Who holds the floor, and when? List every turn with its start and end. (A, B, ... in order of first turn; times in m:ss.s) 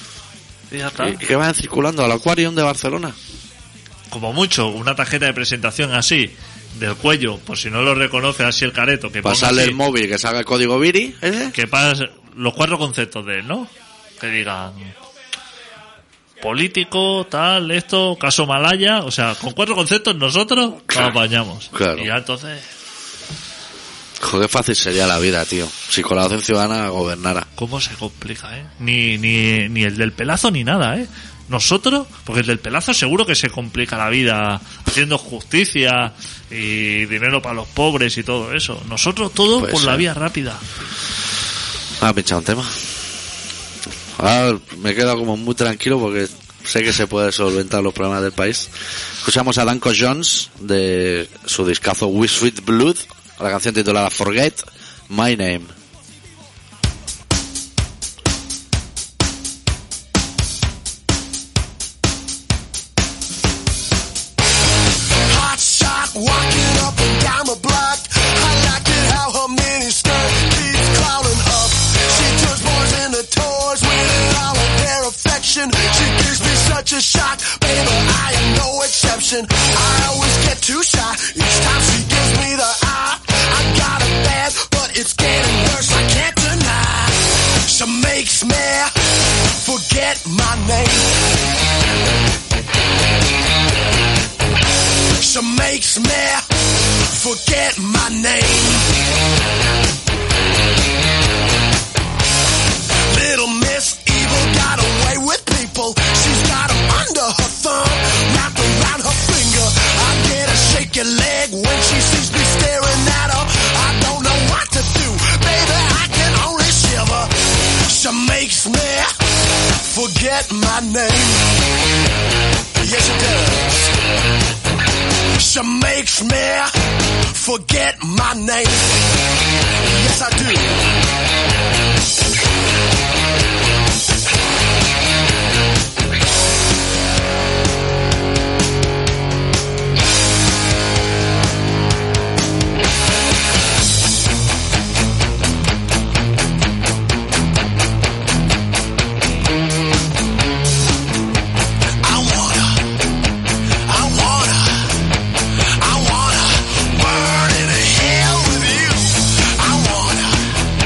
0:00.7-0:01.2 A
0:01.0-0:03.1 B
0:04.1-0:09.8 A
0:09.2-0:11.5 B
0:11.5-0:14.9 A
0:16.4-0:22.7 A
0:21.7-0:22.1 B
0:24.2-0:27.5 B
0:27.6-0:40.6 A
0:39.5-0:40.0 B
0:42.0-0:42.9 B
0:44.2-0:48.7 B
0:49.2-0:55.7 B
1:05.2-1:31.2 C
1:35.2-1:38.9 C
1:43.1-1:59.1 C
1:59.7-2:01.6 C
2:02.8-2:04.0 C
2:05.4-2:09.0 C
2:09.8-2:10.9 C
2:32.0-2:32.9 C
2:33.8-2:35.0 C
2:35.6-2:40.6 C